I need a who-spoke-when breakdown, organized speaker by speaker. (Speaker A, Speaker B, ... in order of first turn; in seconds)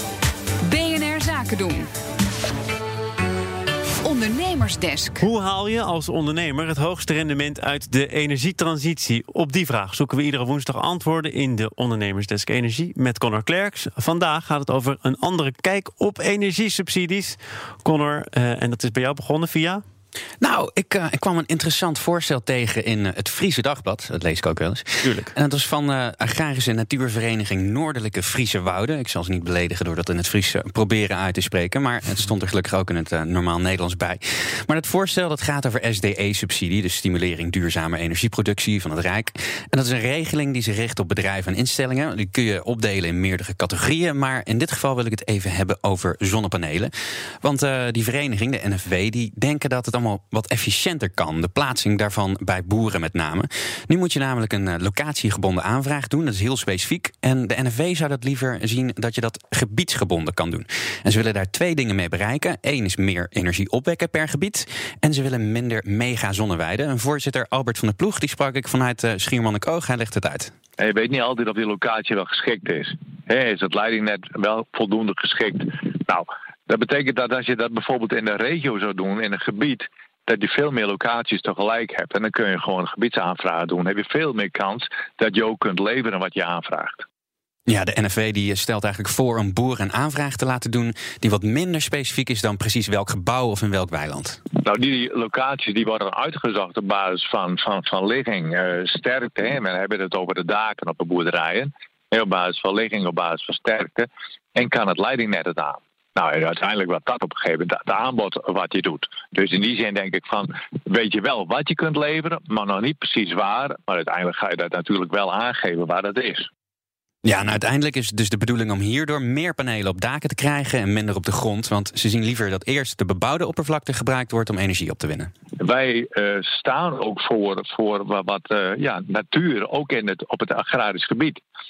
Speaker A: 0.6-1.9, 4.0-5.3
Speaker B: 5.2-19.8, 25.1-25.3
Speaker C: 20.4-46.9, 47.4-70.5, 87.7-94.4, 117.2-125.3
Speaker D: 70.8-87.1, 94.6-116.5, 125.6-131.4